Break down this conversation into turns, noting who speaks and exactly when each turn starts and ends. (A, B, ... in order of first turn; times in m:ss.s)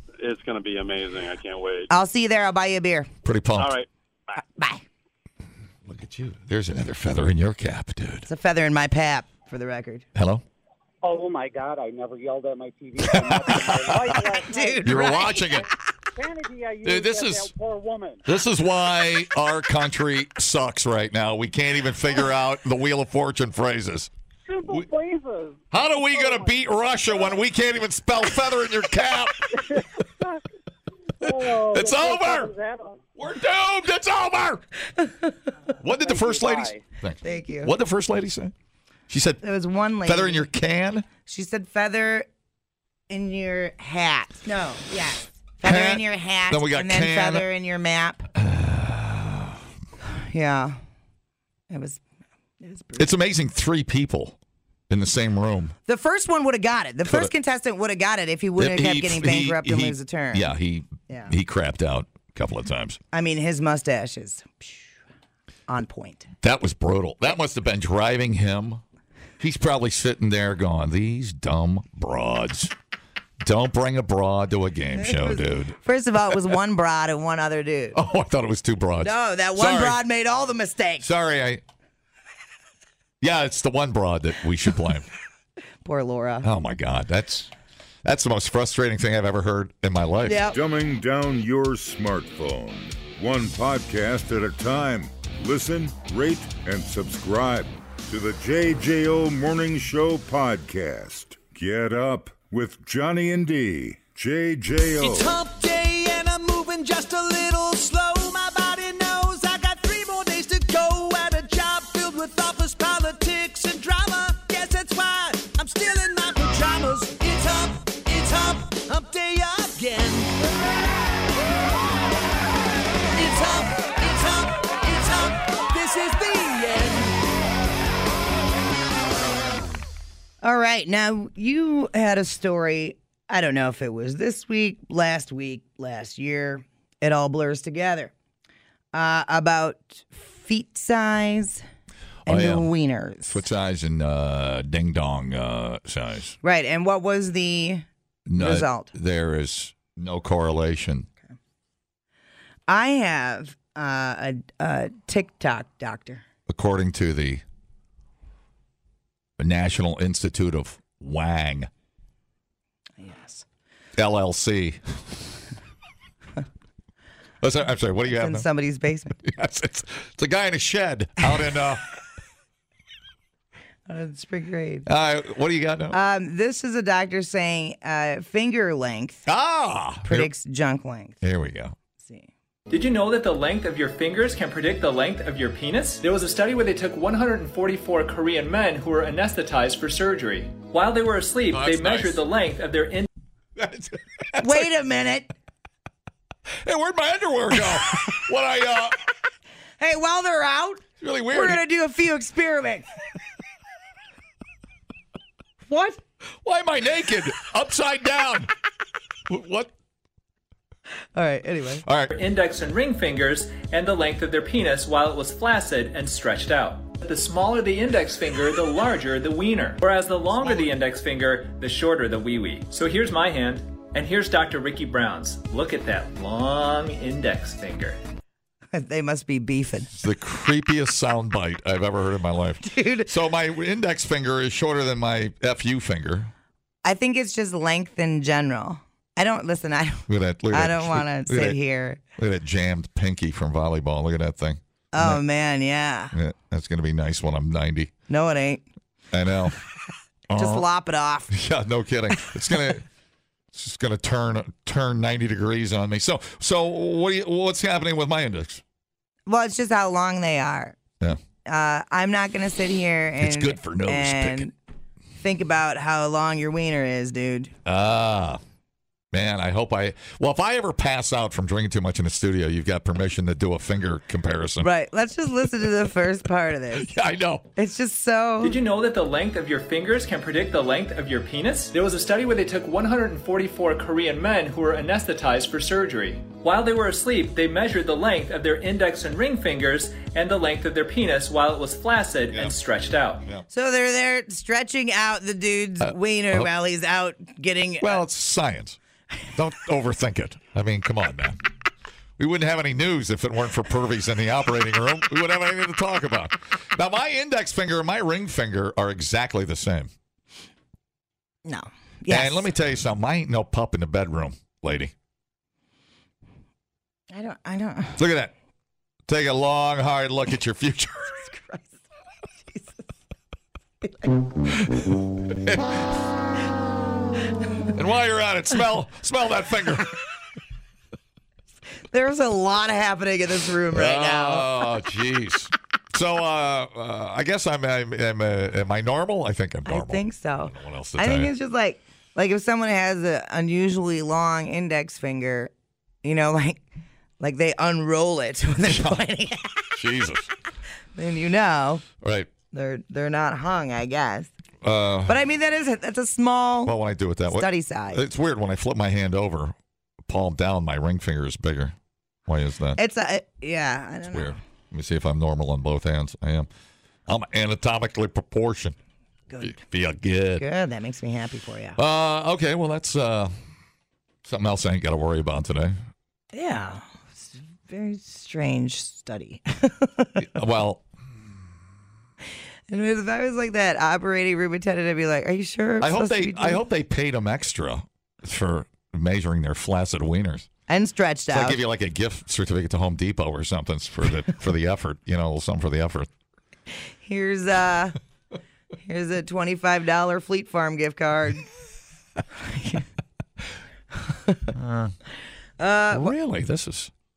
0:00.2-0:01.9 A
0:01.9-0:03.1 B
0:03.2-0:03.8 C
0:03.6-0:04.4 A
0:04.5-0:04.8 B
0:05.9-0:08.3 C
0:08.2-0:10.0 B
0:10.2-0:10.4 C
0:11.0-0:15.6 D
0:13.0-0:14.3 C
0:14.4-0:15.6 B
0:14.8-0:15.7 C
0:16.1-0:18.2 D
0:16.8-0:17.5 C
0:18.2-0:24.1 C
0:24.5-0:26.5 D
0:25.7-0:29.8 C
0:29.6-0:30.2 D
0:31.2-0:32.5 C
0:31.2-0:33.0 D
0:33.2-0:34.6 C
0:35.0-0:35.2 B
0:35.8-0:38.5 C
0:36.0-0:36.7 D
0:37.2-0:37.7 B
0:39.1-0:39.4 C
0:39.4-0:40.4 B
0:40.0-0:41.0 C
0:41.2-0:42.2 B
0:43.1-0:48.3 B
0:45.6-0:47.4 C
0:48.4-0:49.6 C
0:50.1-0:50.8 B
0:51.7-0:52.0 B
0:52.6-0:53.1 B
0:53.0-0:54.4 C
0:54.9-0:55.7 C
0:55.9-1:00.5 B
0:57.0-0:57.3 C
0:58.6-1:03.0 C
1:03.1-1:04.9 B
1:05.7-1:06.3 B
1:06.4-1:08.8 C
1:09.4-1:12.7 C
1:13.4-1:15.8 C
1:15.0-1:18.0 B
1:17.9-1:20.0 C
1:19.0-1:21.0 B
1:21.0-1:21.6 C
1:23.2-1:25.1 C
1:25.8-1:26.5 B
1:26.4-1:27.5 C
1:28.0-1:30.4 C
1:30.2-1:30.6 B
1:30.5-1:45.3 E
1:45.0-2:00.4 F
2:03.1-2:07.2 F
2:10.4-2:18.1 B
2:18.9-2:21.6 B
2:22.2-2:23.4 B
2:22.3-2:22.7 C
2:23.2-2:26.4 C
2:26.4-2:27.8 B
2:28.3-2:31.1 C
2:28.4-2:28.9 B
2:32.7-2:36.2 B
2:36.5-2:37.4 C
2:39.4-2:41.7 C
2:43.0-2:43.4 B
2:44.0-2:45.2 C
2:47.4-2:48.4 C
2:48.2-2:49.2 B
2:49.2-2:51.8 C
2:53.9-2:54.9 B
2:54.9-2:56.0 C
2:55.9-2:59.2 B
2:59.3-3:00.3 C
3:00.0-3:01.2 B
3:01.2-3:01.7 C
3:02.0-3:02.3 B
3:02.7-3:13.1 G
3:11.5-3:12.2 C
3:13.6-3:14.7 C
3:14.4-3:15.3 B
3:16.6-3:19.0 C
3:19.8-3:22.9 B
3:21.0-3:21.6 C
3:25.7-3:26.0 B
3:26.4-3:28.5 C
3:29.3-3:29.7 C
3:31.2-3:31.8 B
3:31.8-3:32.1 C
3:32.1-3:48.0 G
3:48.7-3:49.9 B
3:49.9-3:56.3 C
3:52.6-3:53.1 B
3:56.8-4:02.0 B
4:00.1-4:01.6 C
4:02.2-4:05.2 C
4:04.9-4:06.1 B
4:06.1-4:07.9 C
4:08.1-4:08.6 B
4:09.1-4:09.6 C
4:10.3-4:10.6 C
4:10.4-4:11.3 B
4:11.3-4:12.8 C
4:12.1-4:12.5 B
4:13.5-4:18.6 C
4:19.3-4:20.8 B
4:21.4-4:24.5 B
4:23.2-4:24.5 C
4:25.2-4:27.5 B
4:27.6-4:28.4 C
4:29.1-4:34.7 C
4:34.6-4:36.9 B
4:36.8-4:37.4 C
4:37.6-4:38.6 B
4:38.4-4:53.2 G
4:53.5-4:58.0 B
4:55.8-4:56.5 C
4:57.8-4:58.8 C
4:59.3-5:01.4 C
5:02.2-5:09.9 C
5:11.4-5:12.5 B
5:12.1-5:14.9 C
5:17.1-5:18.0 B
5:18.0-5:18.3 C
5:19.1-5:21.3 C
5:21.3-5:21.8 B
5:24.7-5:25.8 C
5:27.7-5:30.0 C
5:31.9-5:34.7 B
5:33.7-5:41.3 C
5:39.7-5:45.5 B
5:46.0-5:46.6 B
5:47.2-5:49.7 B
5:48.6-5:49.0 C
5:49.7-5:50.3 C
5:51.0-5:51.8 B
5:52.0-5:52.3 C
5:52.5-5:54.3 B
5:54.6-5:55.2 C
5:55.1-5:56.7 B
5:56.6-5:59.5 C
5:57.3-5:58.0 B
6:00.1-6:01.7 C
6:02.3-6:02.8 C
6:02.8-6:04.4 B
6:04.1-6:06.5 C
6:07.1-6:08.7 C
6:09.3-6:09.6 B
6:09.4-6:10.4 C
6:10.4-6:11.8 B
6:11.8-6:13.3 C
6:14.2-6:15.8 C
6:16.3-6:20.2 B
6:20.2-6:20.8 C
6:22.7-6:26.6 B
6:25.8-6:30.5 C
6:30.7-6:31.6 B
6:31.3-6:36.1 C
6:37.0-6:37.9 B
6:38.8-6:41.4 B
6:42.4-6:42.8 B
6:44.1-6:44.4 B
6:44.5-6:45.0 C
6:45.6-6:46.1 B
6:45.9-6:46.9 C